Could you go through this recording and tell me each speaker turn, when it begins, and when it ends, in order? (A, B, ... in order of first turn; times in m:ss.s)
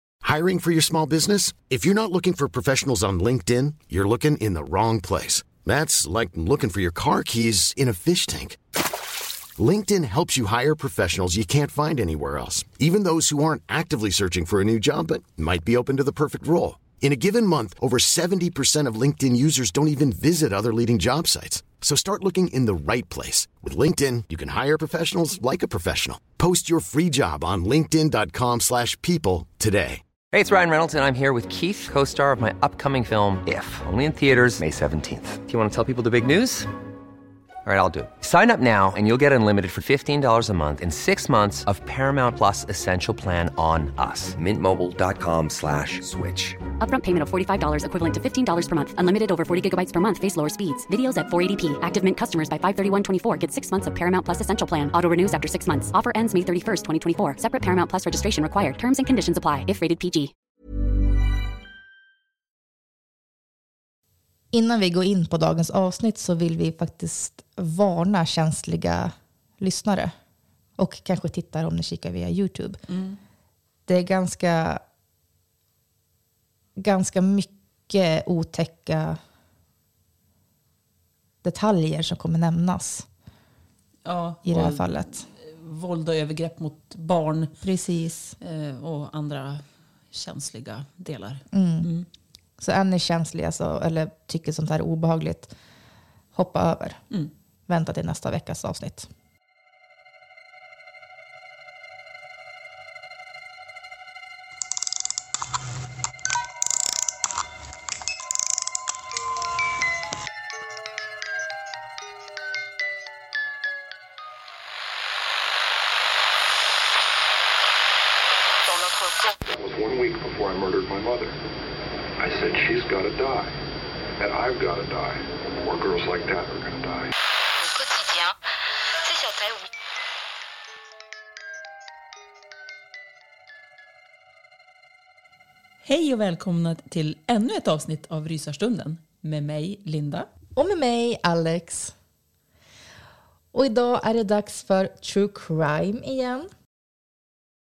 0:00.2-0:08.6 A
0:09.6-0:30.0 A
0:30.3-0:36.7 B
0:37.6-0:46.6 B
0:46.8-1:00.3 C
1:04.5-1:10.1 D
1:10.8-1:12.8 D
1:12.9-1:13.2 E
1:13.9-1:14.8 D
1:16.8-1:19.2 D
1:21.4-1:23.1 D
1:24.0-1:27.5 E
1:24.4-1:25.3 D
1:27.6-1:28.4 D
1:28.4-1:32.1 E
1:31.5-1:31.9 D
1:32.6-1:35.5 D
1:36.3-1:37.0 D
1:37.7-1:39.1 D
1:59.4-2:01.4 F
2:02.2-2:03.6 F
2:04.2-2:07.1 F
2:15.8-2:20.3 E
2:20.6-2:21.9 D
2:23.5-2:26.5 D